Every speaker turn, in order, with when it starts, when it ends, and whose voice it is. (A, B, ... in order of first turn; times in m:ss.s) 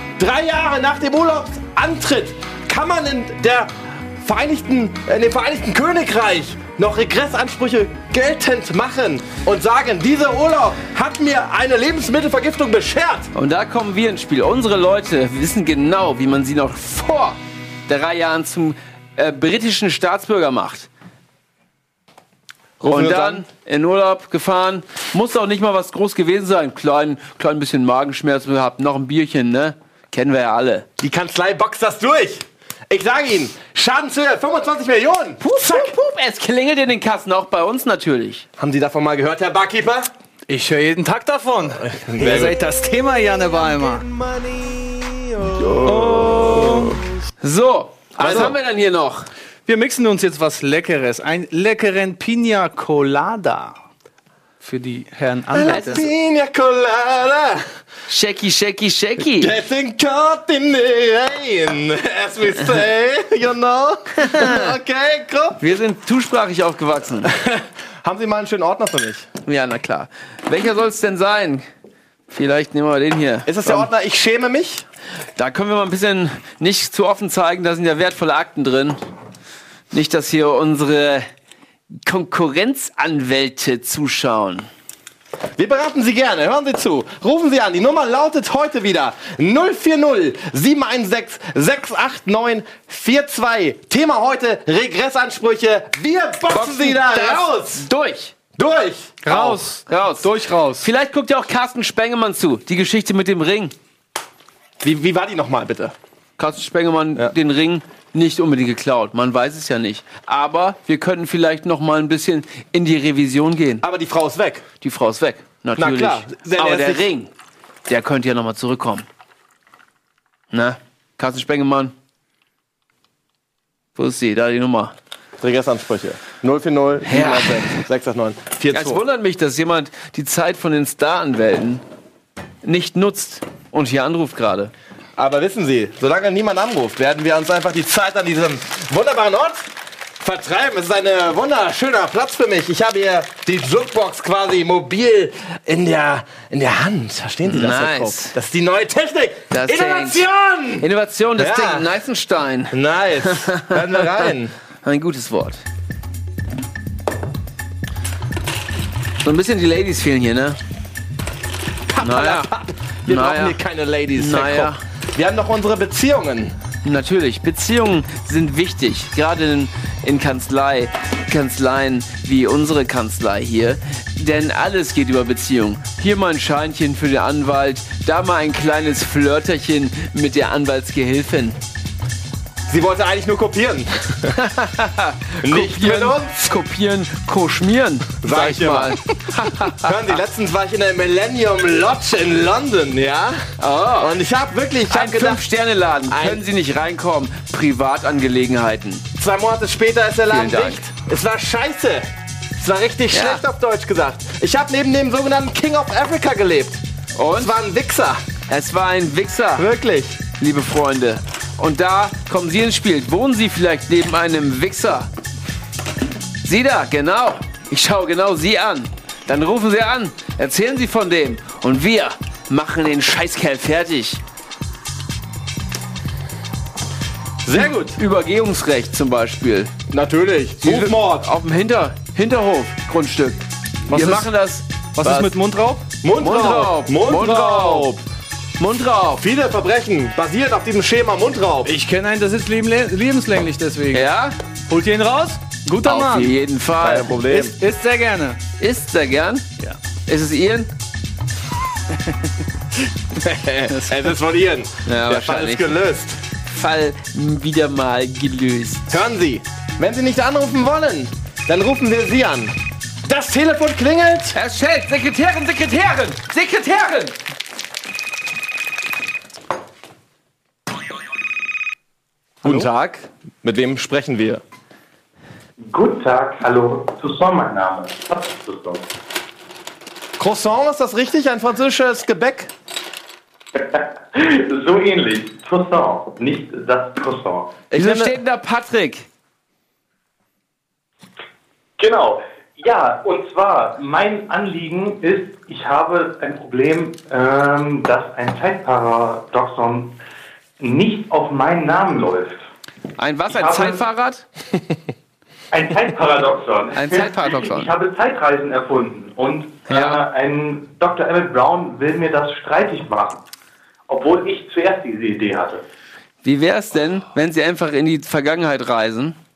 0:00.2-0:13.3 A
0:13.3-0:20.9 B
0:22.8-0:23.4 A
0:22.8-0:30.9 B
0:31.0-0:36.0 A
0:35.4-0:38.5 B
0:38.6-0:40.1 A
0:40.5-0:44.0 C
0:41.8-0:42.6 A
0:44.0-0:47.0 A
0:45.6-0:47.0 C
0:47.4-0:49.3 B
0:48.2-0:48.6 A
0:49.7-0:53.8 C
0:54.6-0:56.0 C
0:55.5-0:57.6 A
0:55.7-0:56.0 B
0:58.1-0:59.5 B
0:59.3-1:05.6 A
1:04.2-1:04.6 B
1:05.6-1:07.3 B
1:07.2-1:09.3 A
1:09.5-1:11.7 B
1:12.3-1:13.9 B
1:13.5-1:14.9 A
1:15.4-1:19.0 B
1:19.9-1:21.3 B
1:22.0-1:24.7 B
1:25.6-1:37.9 A
1:36.5-1:38.4 B
1:38.5-1:39.6 A
1:39.2-1:40.9 C
1:39.9-1:43.7 B
1:44.8-1:46.0 A
1:46.4-1:53.8 B
1:53.8-1:54.7 A
1:54.8-1:57.3 B
1:55.8-1:57.1 A
1:57.9-1:59.1 B
2:00.5-2:01.9 B
2:04.0-2:04.9 B
2:05.4-2:09.0 A
2:07.1-2:07.8 B
2:08.7-2:11.8 B
2:12.6-2:14.7 B
2:15.2-2:31.9 A
2:27.4-2:28.4 B
2:29.5-2:30.3 B
2:30.8-2:34.3 B
2:32.7-2:34.5 A
2:34.8-2:35.6 B
2:39.2-2:40.6 B
2:41.9-2:46.6 A
2:42.0-2:42.5 B
2:43.1-2:43.6 B
2:44.2-2:44.8 B
2:46.8-3:01.6 B
3:02.7-3:04.4 A
3:04.4-3:09.9 B
3:05.4-3:06.5 A
3:08.2-3:09.0 A
3:09.8-3:13.4 A
3:13.6-3:14.1 B
3:14.0-3:15.4 A
3:14.9-3:19.1 B
3:16.1-3:16.4 A
3:19.2-3:26.8 A
3:20.3-3:20.8 B
3:23.1-3:23.4 B
3:27.2-3:27.5 B
3:27.3-3:28.2 A
3:28.5-3:29.7 B
3:29.6-3:30.2 A
3:30.4-3:35.1 B
3:36.4-3:44.2 B
3:47.4-3:48.0 A
3:47.9-3:49.7 B
3:49.9-3:51.3 A
3:50.6-3:55.3 B
3:53.9-3:54.3 A
3:55.0-3:55.9 C
3:56.0-3:58.0 A
3:56.2-3:58.0 B
3:58.6-3:59.2 B
3:59.2-4:01.7 A
4:01.6-4:04.1 C
4:03.9-4:04.4 B
4:04.7-4:06.4 C
4:05.8-4:07.2 B
4:06.8-4:07.6 A
4:07.2-4:08.4 C
4:08.6-4:09.4 B
4:10.1-4:10.7 B
4:13.2-4:16.2 A
4:14.9-4:15.7 B
4:16.5-4:18.9 B
4:18.9-4:22.5 A
4:23.0-4:24.4 A
4:24.4-4:27.2 B
4:32.4-4:34.4 A
4:35.6-4:38.8 D
4:40.2-4:42.5 A
4:43.6-4:47.5 D
4:47.7-4:48.2 A
4:47.8-4:49.1 B
4:51.8-4:59.9 D
5:00.6-5:02.5 D
5:03.0-5:04.2 B
5:03.3-5:03.8 D
5:05.5-5:13.2 D
5:06.7-5:07.7 B
5:09.7-5:10.0 B
5:13.9-5:15.6 D
5:16.2-5:19.2 B